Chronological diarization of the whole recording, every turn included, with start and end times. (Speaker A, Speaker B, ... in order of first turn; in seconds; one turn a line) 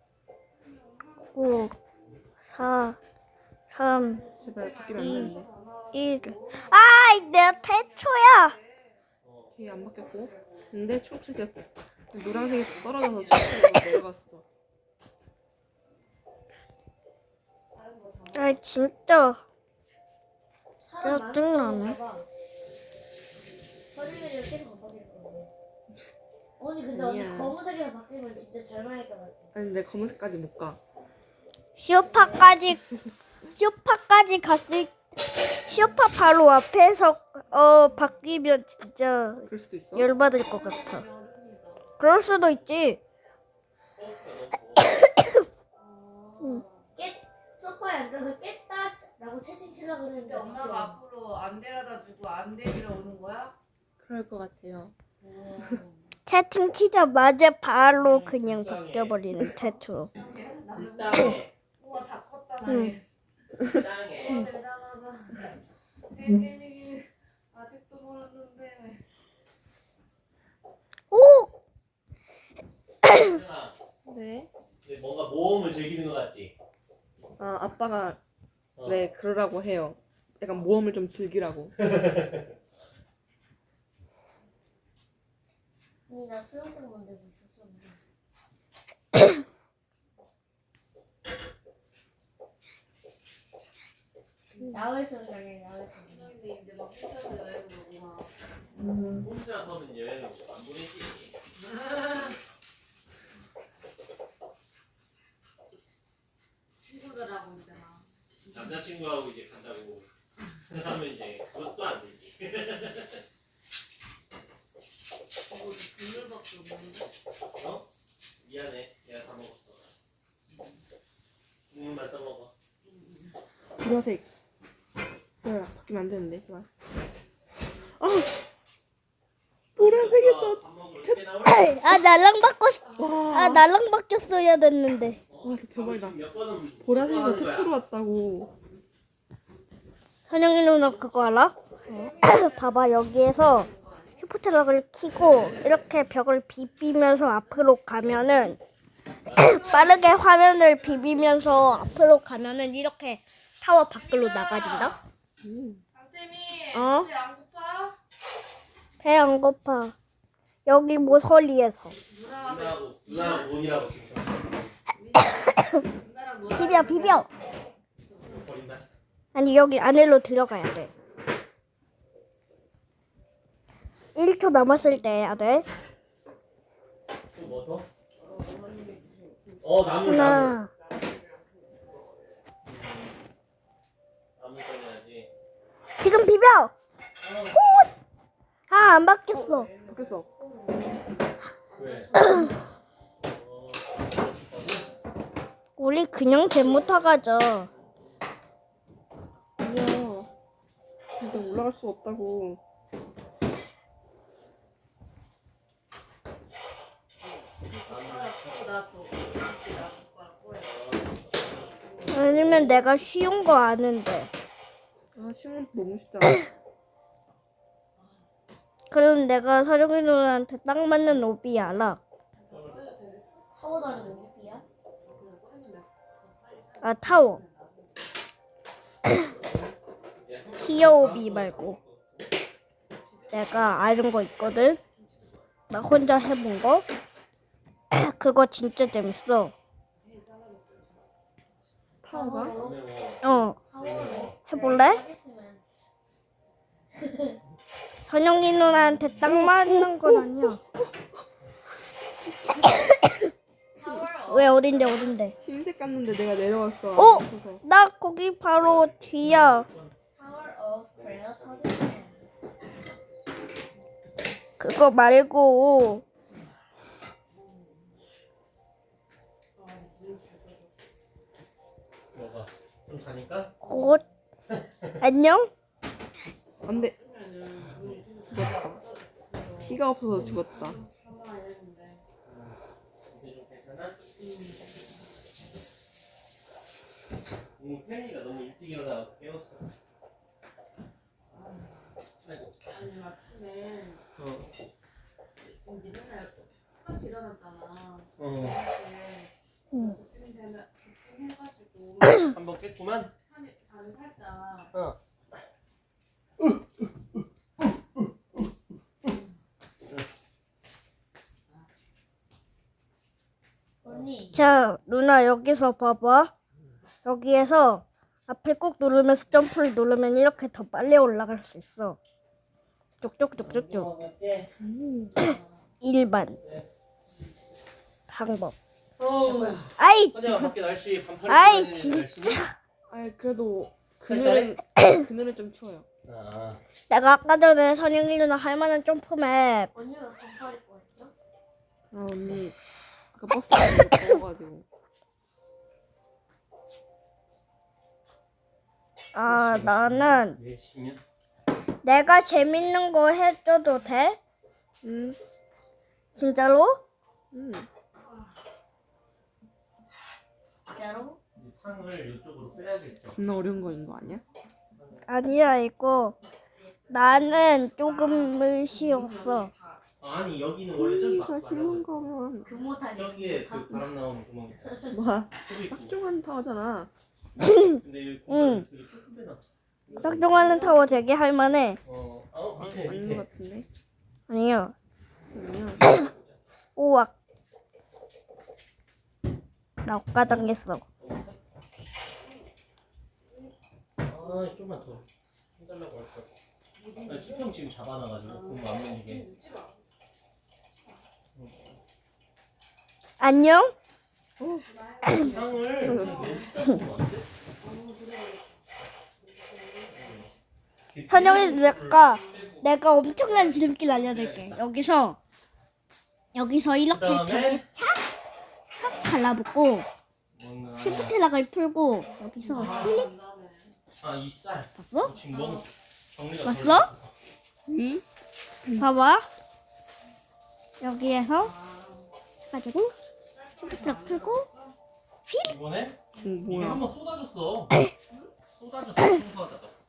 Speaker A: 0.6-1.7
Speaker B: 1.4-1.8
Speaker B: 2.5-3.0
Speaker B: 3.7-4.3
Speaker A: 4.3-9.0
Speaker C: 4.4-5.5
Speaker B: 5.0-5.3
Speaker B: 5.9-8.6
Speaker D: 9.2-9.6
Speaker C: 9.5-14.4
Speaker A: 9.6-10.8
Speaker A: 12.1-13.9
Speaker A: 17.7-18.7
Speaker B: 18.3-19.4
Speaker E: 20.8-22.3
Speaker B: 21.0-22.0
Speaker E: 23.9-25.5
Speaker E: 26.6-29.5
Speaker C: 26.9-27.6
Speaker C: 29.5-30.8
Speaker B: 31.8-32.8
Speaker E: 32.1-32.5
Speaker B: 33.5-35.0
Speaker B: 35.7-41.0
Speaker A: 37.6-37.9
Speaker C: 39.5-40.1
Speaker A: 40.2-41.8
Speaker B: 42.0-43.0
Speaker D: 44.0-45.0
Speaker A: 45.8-47.0
Speaker E: 47.0-51.0
Speaker A: 50.0-53.5
Speaker C: 54.0-54.9
Speaker A: 55.2-56.1
Speaker B: 56.3-60.1
Speaker D: 58.0-59.2
Speaker A: 60.1-63.0
Speaker D: 60.7-61.5
Speaker C: 62.7-63.0
Speaker D: 63.6-64.5
Speaker A: 64.1-65.5
Speaker A: 66.1-69.0
Speaker B: 71.1-71.5
Speaker D: 73.1-73.8
Speaker C: 74.1-74.5
Speaker D: 74.8-76.5
Speaker C: 77.4-78.2
Speaker D: 78.8-79.1
Speaker C: 78.8-81.8
Speaker D: 81.8-82.6
Speaker E: 86.1-88.0
Speaker E: 94.6-96.3
Speaker A: 96.0-98.3
Speaker C: 98.8-99.2
Speaker D: 99.1-101.3
Speaker A: 101.6-102.4
Speaker A: 106.8-108.8
Speaker D: 108.5-110.1
Speaker D: 110.7-113.2
Speaker A: 115.5-117.1
Speaker D: 117.6-117.9
Speaker D: 118.4-119.9
Speaker D: 121.7-122.5
Speaker A: 122.8-123.3
Speaker C: 123.8-124.2
Speaker C: 125.4-126.7
Speaker C: 128.0-128.3
Speaker C: 129.8-131.2
Speaker D: 129.8-132.1
Speaker B: 131.4-135.2
Speaker A: 132.8-133.5
Speaker C: 133.0-133.7
Speaker D: 135.3-137.7
Speaker C: 135.4-136.2
Speaker C: 136.8-138.5
Speaker B: 140.3-141.6
Speaker D: 140.8-141.2
Speaker A: 141.8-144.3
Speaker C: 141.9-142.2
Speaker B: 142.2-148.6
Speaker D: 149.2-149.9
Speaker B: 149.3-155.0
Speaker A: 149.6-151.8
Speaker A: 153.9-155.0
Speaker C: 155.4-155.8
Speaker A: 155.9-158.0
Speaker B: 156.7-157.1
Speaker B: 159.0-159.9
Speaker B: 160.7-161.9
Speaker A: 161.9-163.5
Speaker D: 162.3-164.8
Speaker A: 164.9-167.3
Speaker B: 165.2-165.8
Speaker B: 166.5-167.3
Speaker A: 168.1-168.4
Speaker D: 168.2-168.9
Speaker B: 169.3-170.9
Speaker B: 174.2-175.7
Speaker A: 175.0-175.3
Speaker D: 177.3-177.9
Speaker A: 178.2-182.0
Speaker D: 179.6-180.6
Speaker B: 180.0-180.7
Speaker D: 182.7-183.1
Speaker D: 184.4-185.3
Speaker B: 186.0-186.7
Speaker D: 187.2-187.6
Speaker B: 187.5-187.9
Speaker B: 188.7-189.7
Speaker A: 189.3-192.7
Speaker C: 189.9-190.3
Speaker D: 191.8-192.2
Speaker B: 192.2-192.5
Speaker D: 193.2-194.9
Speaker B: 195.8-197.7
Speaker D: 196.7-197.0
Speaker D: 197.7-198.1
Speaker C: 199.6-200.3
Speaker C: 201.2-202.6
Speaker A: 207.2-212.7
Speaker D: 207.8-208.5
Speaker D: 210.6-212.8
Speaker B: 212.1-214.3
Speaker C: 215.2-216.5
Speaker A: 218.0-218.3
Speaker B: 218.9-222.0
Speaker A: 222.3-228.1
Speaker D: 222.5-222.9
Speaker E: 223.5-224.6
Speaker B: 226.8-227.4
Speaker D: 229.1-232.3
Speaker B: 230.6-231.8
Speaker A: 232.9-235.5
Speaker B: 233.3-234.8
Speaker B: 235.7-236.9
Speaker B: 237.9-239.5
Speaker A: 240.0-241.7
Speaker C: 242.0-242.6
Speaker E: 242.1-242.7
Speaker A: 242.4-242.8
Speaker D: 242.5-244.4
Speaker B: 243.2-243.6
Speaker E: 243.7-245.6
Speaker B: 244.5-245.0
Speaker E: 247.0-247.4
Speaker B: 248.1-250.6
Speaker C: 249.2-251.0
Speaker C: 252.1-252.9
Speaker E: 253.8-255.4
Speaker B: 254.3-255.3
Speaker C: 255.4-257.6
Speaker B: 257.0-259.7
Speaker D: 258.5-259.9
Speaker E: 260.2-262.2
Speaker D: 260.9-261.8
Speaker B: 264.6-266.0
Speaker A: 267.3-268.0
Speaker A: 269.6-270.9
Speaker D: 272.1-273.6
Speaker B: 273.6-274.0
Speaker A: 273.6-274.1
Speaker D: 274.5-275.0
Speaker B: 275.0-275.5
Speaker A: 276.5-279.8
Speaker C: 276.6-276.9
Speaker D: 277.7-278.1
Speaker C: 278.3-278.8
Speaker C: 279.6-280.8
Speaker D: 280.1-280.4
Speaker A: 280.4-282.0
Speaker D: 282.2-282.6
Speaker D: 283.1-284.0
Speaker A: 284.2-285.0
Speaker D: 287.6-289.7
Speaker A: 291.3-291.9
Speaker D: 292.2-292.6
Speaker A: 292.7-294.0
Speaker D: 294.2-294.5
Speaker A: 295.4-302.4
Speaker D: 298.2-298.6
Speaker B: 299.7-300.0
Speaker D: 302.2-303.1
Speaker A: 303.3-304.7
Speaker D: 306.4-307.2
Speaker D: 308.0-308.4
Speaker E: 313.8-314.5
Speaker B: 314.3-316.3
Speaker B: 317.1-322.0
Speaker B: 323.0-323.9
Speaker D: 323.4-324.5
Speaker C: 324.6-325.2
Speaker A: 325.1-325.7
Speaker B: 325.2-326.4
Speaker B: 328.1-328.6
Speaker D: 329.0-332.4
Speaker B: 329.8-330.5
Speaker B: 331.3-332.5
Speaker C: 332.9-335.9
Speaker D: 334.1-334.6
Speaker B: 334.8-335.0
Speaker D: 336.1-336.6
Speaker B: 336.9-339.7
Speaker E: 339.7-341.1
Speaker C: 341.9-342.6
Speaker C: 343.1-344.6
Speaker B: 349.1-350.4
Speaker D: 349.2-351.0
Speaker B: 351.8-354.2
Speaker C: 354.8-355.2
Speaker B: 356.2-356.8
Speaker C: 357.3-357.7
Speaker E: 360.7-361.2
Speaker D: 361.4-363.2
Speaker C: 363.1-364.2
Speaker D: 364.7-365.1
Speaker B: 365.1-366.2
Speaker A: 366.6-369.8
Speaker B: 366.9-369.5
Speaker D: 370.0-372.1
Speaker C: 370.8-372.6
Speaker E: 372.5-373.9
Speaker D: 372.8-374.7
Speaker E: 374.6-375.0
Speaker C: 374.9-376.9
Speaker D: 375.4-376.0
Speaker B: 377.4-378.6
Speaker D: 377.8-380.4
Speaker A: 379.9-381.0
Speaker B: 380.0-381.8
Speaker D: 381.9-383.3
Speaker C: 382.6-383.7
Speaker B: 384.3-384.8
Speaker C: 385.3-385.8
Speaker D: 385.8-386.4
Speaker B: 386.8-387.1
Speaker B: 389.9-390.8
Speaker D: 390.2-391.4
Speaker D: 394.0-395.1
Speaker A: 394.1-394.6
Speaker D: 395.6-396.3
Speaker A: 396.7-397.6
Speaker D: 397.1-399.2
Speaker A: 398.2-399.8
Speaker A: 400.7-401.0
Speaker D: 401.4-401.8
Speaker B: 403.2-403.8
Speaker C: 404.4-404.6
Speaker A: 404.5-406.6
Speaker D: 405.1-407.3
Speaker C: 405.8-406.4
Speaker A: 407.6-408.6
Speaker A: 409.2-410.4
Speaker D: 409.9-410.3
Speaker D: 410.9-414.6
Speaker B: 411.1-415.2
Speaker A: 411.2-412.6
Speaker B: 416.3-418.0
Speaker D: 416.9-417.7
Speaker B: 418.7-419.9
Speaker D: 420.3-421.1
Speaker B: 420.8-423.1
Speaker A: 422.4-423.8
Speaker D: 422.5-422.9
Speaker D: 424.0-427.1
Speaker B: 424.8-425.1
Speaker A: 425.1-425.7
Speaker B: 426.4-426.9
Speaker C: 427.7-428.0
Speaker B: 428.8-429.3
Speaker B: 430.8-431.5
Speaker A: 431.3-432.1
Speaker B: 432.5-432.9
Speaker A: 433.3-434.8
Speaker B: 433.6-434.5
Speaker B: 435.3-435.5
Speaker D: 435.4-437.7
Speaker C: 436.2-436.8
Speaker D: 438.5-439.8